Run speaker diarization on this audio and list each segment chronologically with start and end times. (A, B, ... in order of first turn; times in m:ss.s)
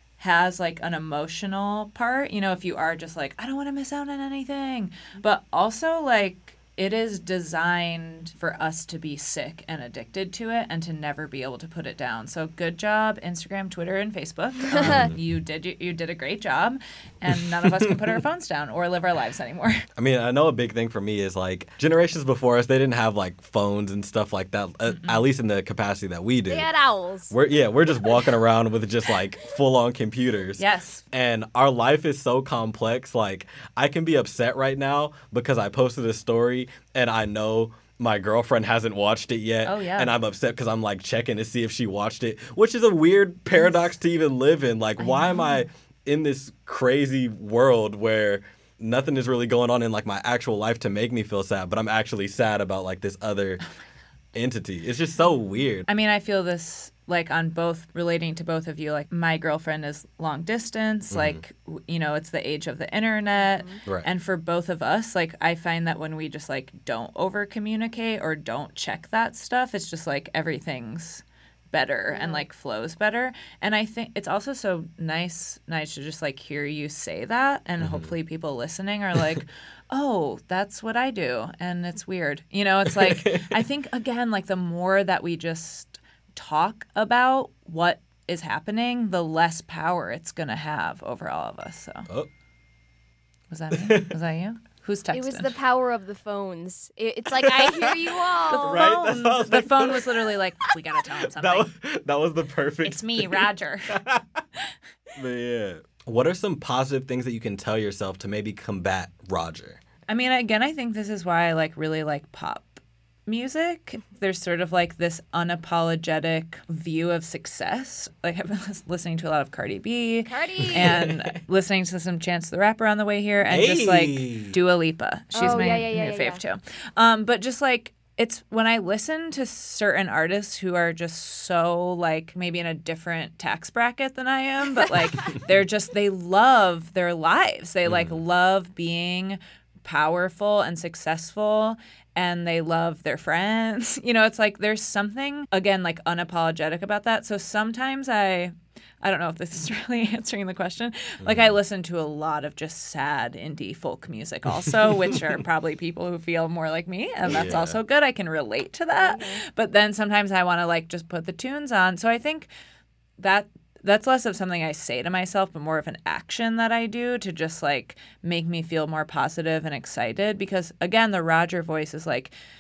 0:00.2-0:19.8 A
0:14.8-0:15.1 B
0:14.8-0:15.2 C
0:20.0-0:26.7 C
0:24.9-0:25.2 A
0:26.5-0:27.3 B
0:27.3-0:53.6 C
0:30.6-0:31.0 A
0:39.6-0:40.1 A
0:45.0-0:45.7 A
0:54.3-0:55.9 C
0:55.9-1:32.1 A
1:01.1-1:01.4 C
1:03.4-1:03.8 B
1:12.1-1:12.5 B
1:17.8-1:18.1 C
1:22.9-1:23.6 C
1:33.5-1:35.5 A
1:33.7-1:34.2 C
1:35.1-1:38.8 B
1:37.4-1:40.3 C
1:38.5-1:41.7 A
1:41.3-1:44.4 C
1:42.8-1:44.0 A
1:45.2-1:49.8 C
1:50.1-2:42.5 A
2:00.3-2:01.0 B
2:00.8-2:01.4 C
2:03.5-2:04.6 C
2:05.3-2:06.4 B
2:17.8-2:18.2 C
2:31.2-2:31.6 C
2:34.8-2:35.3 C
2:37.2-2:37.8 C
2:39.0-2:39.4 B
2:43.2-2:52.3 A